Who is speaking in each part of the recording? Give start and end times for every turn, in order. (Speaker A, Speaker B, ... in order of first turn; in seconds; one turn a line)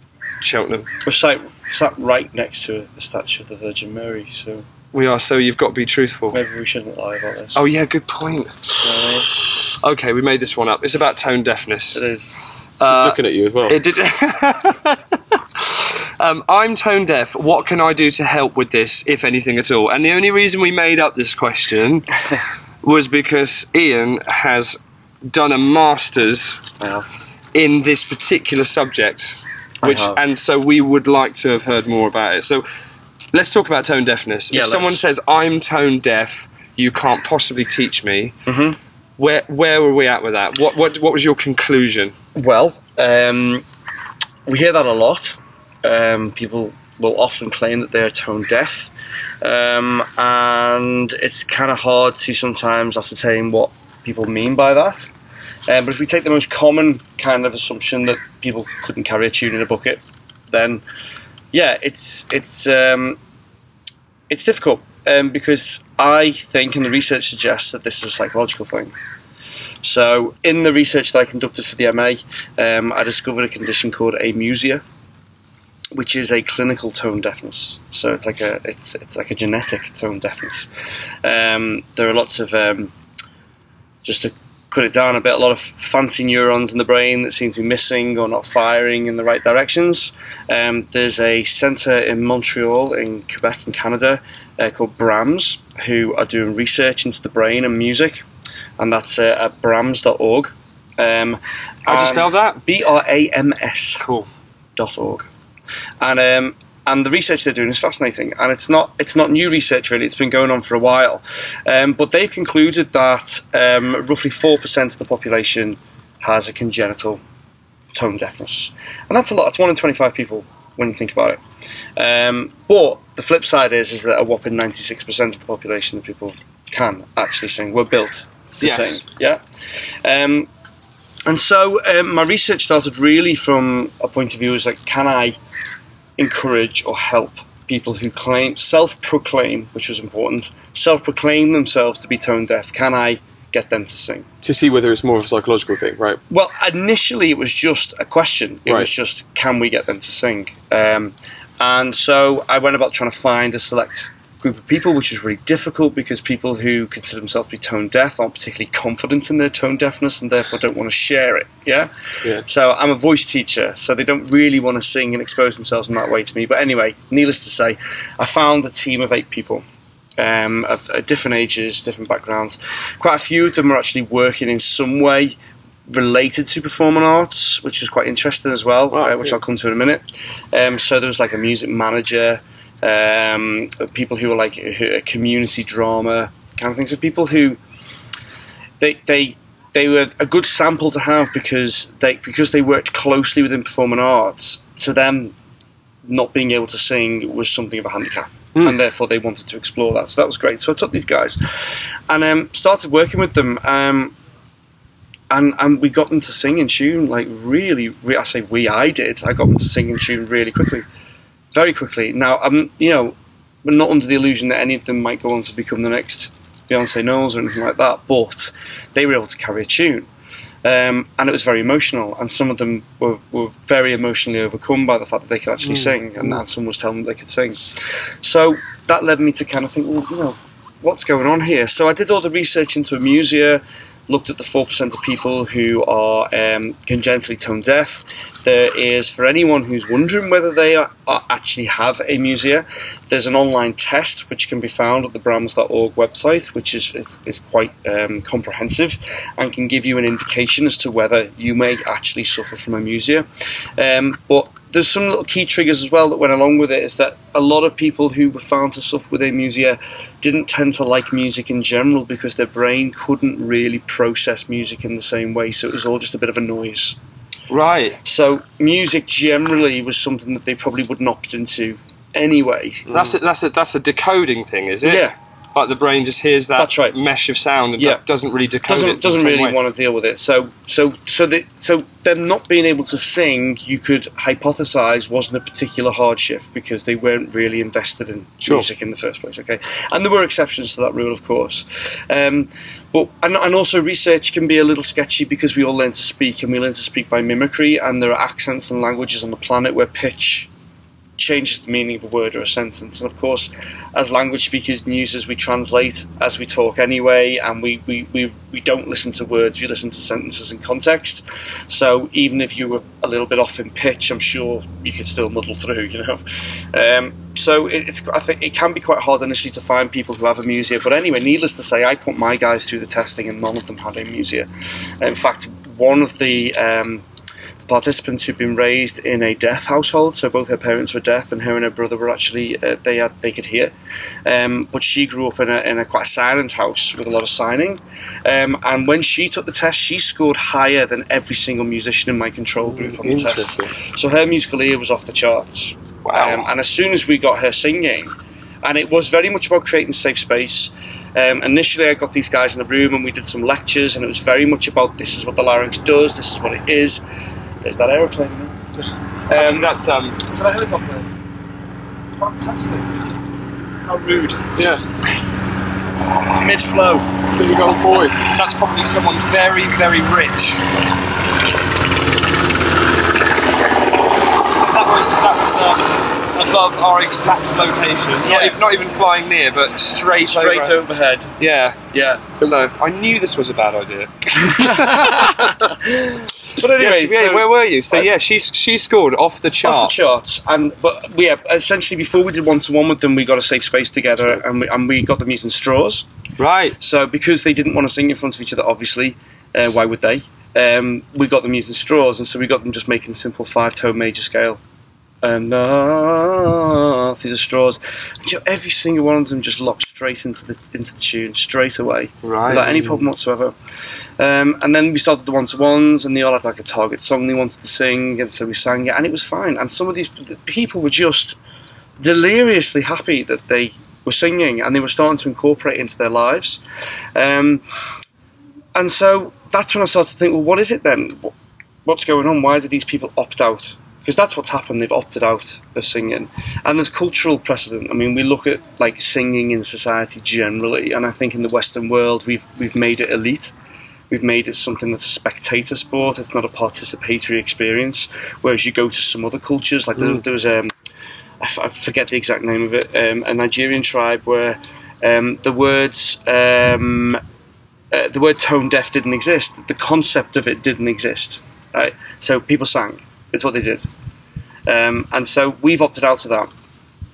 Speaker A: 0.4-0.9
Speaker B: 1.0-4.7
Speaker A: 4.9-6.4
Speaker B: 6.3-7.6
Speaker A: 7.5-12.0
Speaker B: 8.8-9.3
Speaker B: 11.9-12.4
Speaker A: 12.8-22.1
Speaker C: 12.9-13.8
Speaker A: 22.8-26.6
Speaker B: 26.8-27.1
Speaker A: 27.5-32.6
Speaker B: 29.8-30.2
Speaker A: 33.3-38.4
Speaker B: 34.5-35.0
Speaker B: 38.5-38.8
Speaker A: 39.2-42.1
Speaker B: 42.4-43.6
Speaker B: 44.5-48.9
Speaker B: 49.4-55.1
Speaker B: 55.7-60.8
Speaker B: 61.5-63.2
Speaker B: 64.3-68.9
Speaker B: 69.8-74.8
Speaker B: 75.9-80.7
Speaker B: 81.2-82.9
Speaker B: 84.0-98.2
Speaker B: 98.8-104.0
Speaker A: 101.9-102.6
Speaker A: 104.0-104.3
Speaker B: 104.8-105.3
Speaker B: 106.0-117.2
Speaker B: 117.9-121.4
Speaker B: 122.0-129.4
Speaker A: 128.6-129.0
Speaker B: 130.0-130.5
Speaker B: 131.3-135.4
Speaker B: 136.2-144.3
Speaker C: 144.4-146.2
Speaker B: 146.3-169.6
Speaker B: 170.2-175.3
Speaker B: 175.9-187.6
Speaker C: 178.9-179.4
Speaker B: 188.8-195.3
Speaker B: 196.1-204.1
Speaker B: 205.3-210.8
Speaker B: 211.5-220.1
Speaker B: 220.6-253.3
Speaker C: 225.7-225.9
Speaker B: 253.8-267.0
Speaker A: 267.5-268.0
Speaker B: 268.0-272.9
Speaker A: 272.9-279.6
Speaker B: 274.8-275.1
Speaker B: 276.6-277.0
Speaker B: 278.7-300.5
Speaker B: 301.2-324.5
Speaker B: 325.0-327.0
Speaker B: 327.6-333.7
Speaker B: 334.3-357.0
Speaker C: 342.7-343.7
Speaker A: 346.1-346.5
Speaker B: 357.6-358.5
Speaker B: 359.3-361.1
Speaker A: 359.3-360.2
Speaker B: 362.2-362.9
Speaker B: 363.9-364.5
Speaker C: 364.6-364.8
Speaker B: 366.2-367.1
Speaker C: 367.4-368.2
Speaker A: 368.2-370.7
Speaker A: 374.3-380.8
Speaker B: 378.2-378.6
Speaker B: 380.1-381.3
Speaker A: 381.4-381.8
Speaker B: 381.9-382.4
Speaker A: 382.4-385.6
Speaker B: 384.4-388.1
Speaker A: 386.8-389.9
Speaker B: 389.6-396.1
Speaker A: 396.4-396.8
Speaker B: 396.8-404.6
Speaker B: 405.2-413.5
Speaker A: 412.2-412.8
Speaker C: 412.7-413.0
Speaker B: 414.2-421.4
Speaker B: 422.0-426.6
Speaker B: 427.1-427.6
Speaker B: 428.8-431.3
Speaker B: 431.9-443.5
Speaker B: 444.1-450.7
Speaker B: 451.4-457.2
Speaker B: 457.9-463.9
Speaker B: 464.7-466.5